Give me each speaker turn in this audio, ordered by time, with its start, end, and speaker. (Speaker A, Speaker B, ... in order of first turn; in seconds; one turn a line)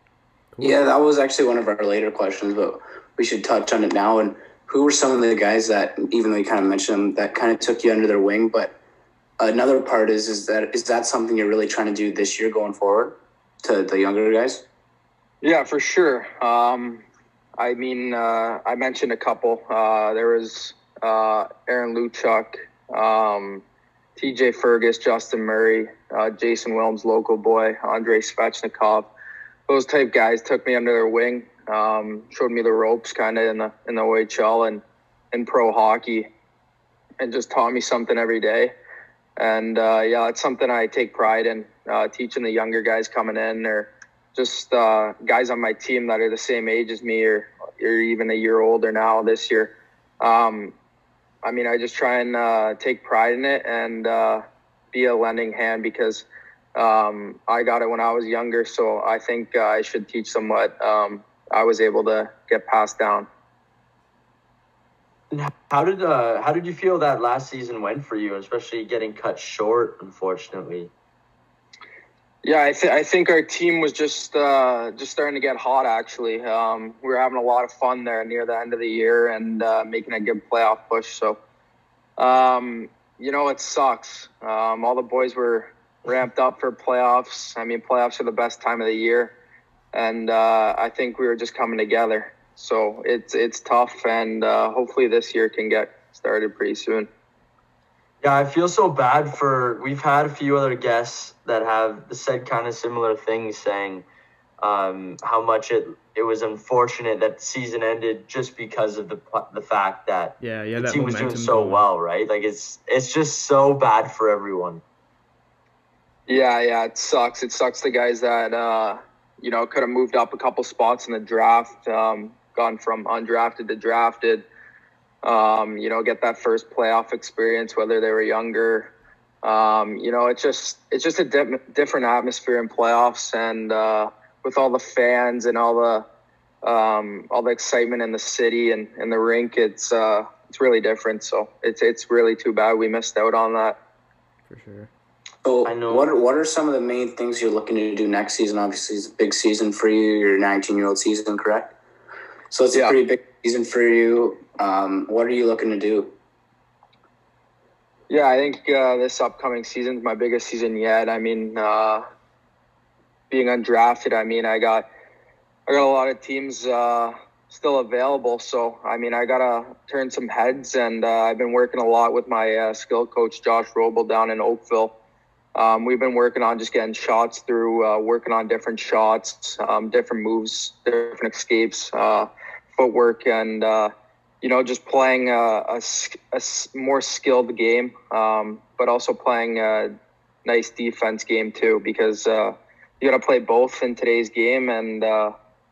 Speaker A: 0.5-0.8
Speaker B: 0.6-8.8
Speaker B: 9.4-14.6
Speaker C: 15.4-17.0
Speaker C: 17.6-23.6
Speaker C: 24.2-29.1
Speaker C: 29.7-36.3
Speaker C: 37.2-38.7
Speaker C: 39.4-50.8
Speaker C: 51.4-63.3
Speaker D: 65.3-70.9
Speaker C: 72.4-81.4
Speaker C: 82.2-89.3
Speaker C: 89.9-97.1
Speaker D: 98.2-104.0
Speaker D: 104.6-114.8
Speaker A: 110.4-111.8
Speaker C: 116.3-124.5
Speaker C: 125.2-136.1
Speaker C: 136.6-143.8
Speaker A: 144.5-144.9
Speaker B: 145.4-151.7
Speaker D: 145.7-146.2
Speaker B: 152.5-156.1
Speaker C: 152.7-153.0
Speaker C: 158.1-162.0
Speaker C: 163.3-164.8
Speaker C: 165.7-174.9
Speaker C: 175.6-189.9
Speaker C: 190.4-195.3